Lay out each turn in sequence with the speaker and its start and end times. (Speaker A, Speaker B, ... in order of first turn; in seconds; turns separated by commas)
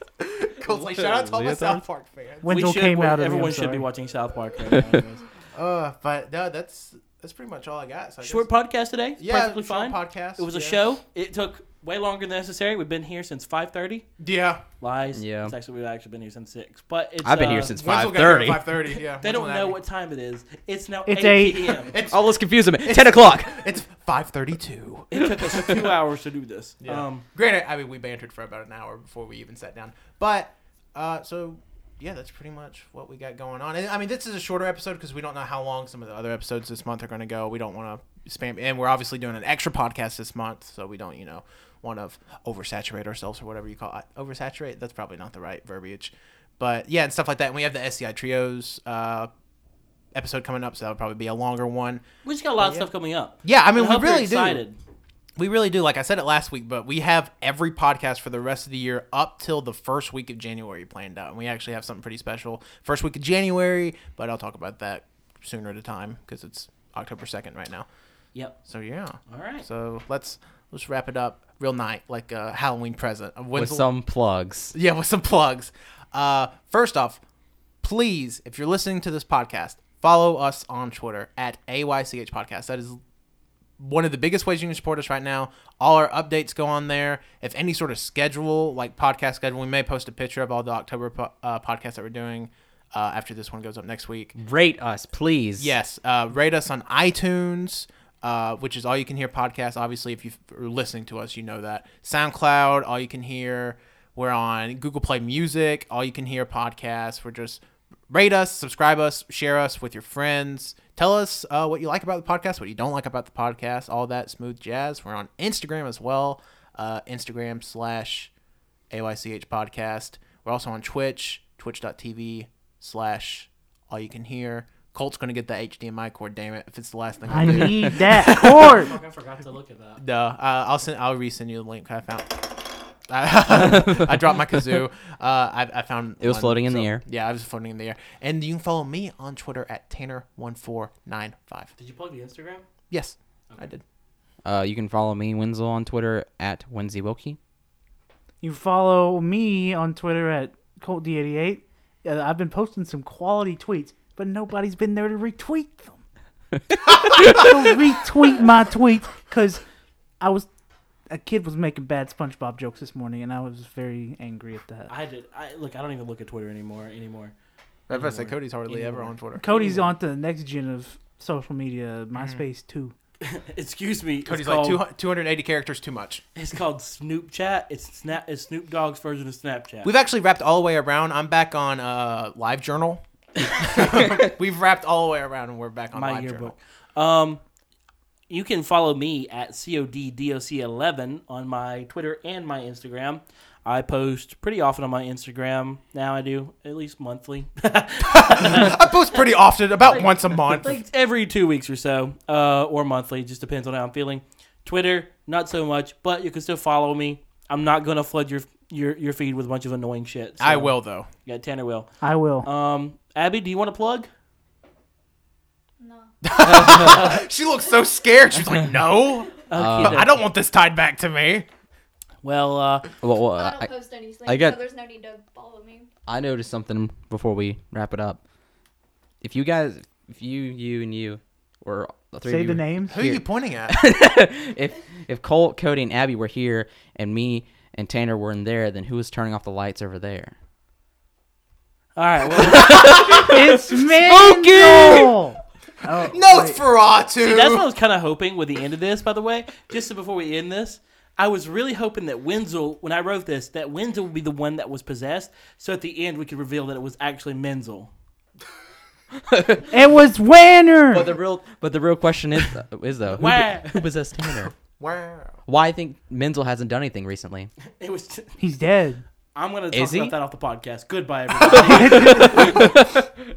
Speaker A: 0.2-2.5, Speaker B: 1.0-1.8, Speaker C: 2.4-3.9, Speaker D: 2.5-5.2, Speaker A: 5.5-8.5, Speaker D: 8.2-14.1, Speaker A: 9.2-10.8, Speaker A: 14.2-14.6, Speaker D: 14.8-17.7, Speaker B: 15.1-15.5, Speaker B: 17.2-18.7, Speaker A: 17.7-19.8, Speaker D: 19.2-22.0, Speaker C: 21.1-21.8, Speaker A: 21.9-25.9, Speaker B: 22.1-23.6, Speaker D: 25.1-27.2, Speaker A: 26.8-49.3, Speaker A: 50.1-52.0, Speaker D: 52.2-54.8, Speaker A: 52.6-52.9, Speaker A: 53.4-54.6, Speaker A: 55.4-67.9, Speaker A: 68.7-73.9, Speaker D: 69.3-69.7, Speaker B: 73.5-74.8, Speaker A: 74.7-77.2, Speaker A: 77.8-83.0, Speaker A: 83.8-94.4, Speaker B: 94.4-95.8, Speaker A: 95.6-118.3, Speaker A: 118.9-128.8, Speaker C: 127.3-129.0, Speaker B: 127.5-127.9, Speaker D: 128.3-130.0, Speaker A: 130.0-132.5, Speaker A: 133.1-141.7, Speaker B: 133.5-134.3, Speaker B: 136.2-137.0, Speaker D: 141.8-142.6, Speaker A: 142.9-143.8, Speaker B: 144.4-147.4, Speaker C: 148.4-156.0, Speaker C: 157.0-159.6, Speaker B: 157.2-157.5, Speaker C: 160.2-160.5, Speaker C: 161.1-164.9, Speaker D: 164.9-167.3, Speaker A: 167.9-169.5, Speaker D: 167.9-169.9, Speaker C: 169.4-172.9, Speaker A: 172.2-172.4, Speaker D: 173.2-174.8, Speaker A: 174.2-176.2, Speaker D: 176.3-179.9, Speaker A: 179.8-186.6, Speaker D: 185.9-187.4, Speaker D: 188.3-199.2, Speaker A: 198.0-200.8, Speaker D: 199.8-211.9, Speaker A: 210.4-211.1, Speaker C: 212.0-212.5, Speaker D: 212.4-214.1, Speaker E: 215.8-216.1, Speaker A: 216.2-221.5, Speaker B: 216.4-217.2, Speaker D: 219.5-220.2, Speaker B: 219.5-220.1, Speaker D: 222.2-222.9, Speaker B: 223.0-223.7, Speaker E: 223.3-225.9, Speaker B: 224.2-224.6, Speaker B: 226.1-228.2, Speaker B: 229.2-240.3, Speaker C: 232.2-233.0, Speaker A: 232.9-233.8, Speaker D: 242.0-243.0, Speaker B: 242.3-245.2, Speaker A: 242.7-243.3, Speaker C: 243.1-246.6, Speaker A: 246.1-247.7, Speaker D: 247.2-257.9, Speaker B: 259.2-259.7, Speaker C: 259.7-261.1, Speaker B: 260.9-264.5, Speaker D: 263.1-263.8, Speaker A: 264.4-265.4, Speaker B: 265.5-267.5, Speaker D: 267.8-268.4, Speaker C: 268.4-269.0, Speaker D: 269.4-272.5, Speaker B: 269.7-270.1, Speaker C: 271.6-272.5, Speaker B: 271.6-272.7, Speaker A: 272.1-272.9